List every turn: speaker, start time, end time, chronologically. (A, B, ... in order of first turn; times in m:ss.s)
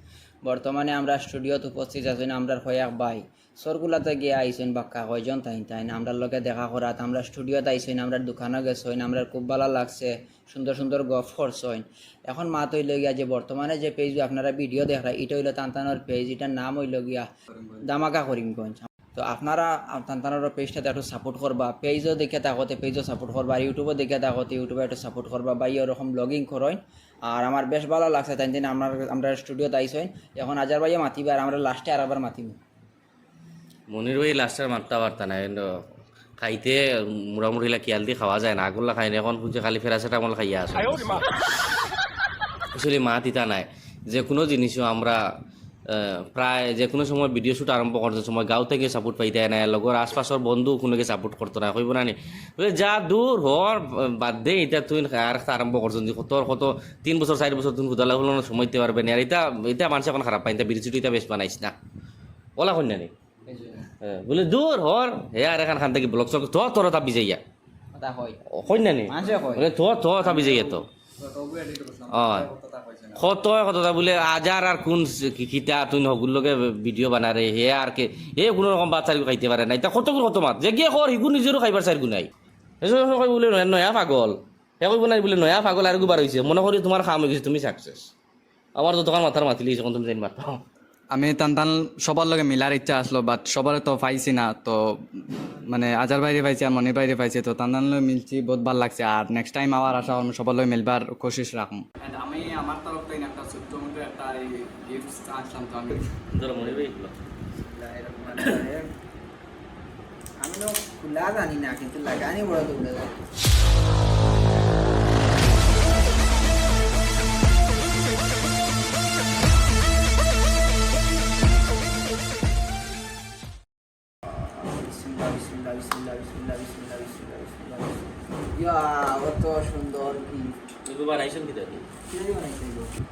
0:00.5-0:17.3 A
0:17.6-0:17.8 B
0:17.9-0:32.6 A
0:33.9-0:35.8 C
0:36.4-0:41.4 C
0:42.7-0:45.2 C
0:45.9-1:01.8 C
1:02.6-1:03.1 C
1:04.0-1:07.4 C
1:08.0-1:08.4 A
1:08.5-1:10.9 C
1:09.1-1:09.7 A
1:10.2-1:13.3 B
1:12.1-1:12.5 C
1:13.2-1:28.1 C
1:28.8-1:30.6 C
1:31.1-1:46.1 B
1:46.3-1:47.2 C
1:47.6-1:48.9 A
1:48.4-1:48.6 C
1:50.4-1:53.1 A
2:04.3-2:08.0 A
2:08.6-2:10.6 A
2:10.8-2:11.8 C
2:12.1-2:12.9 A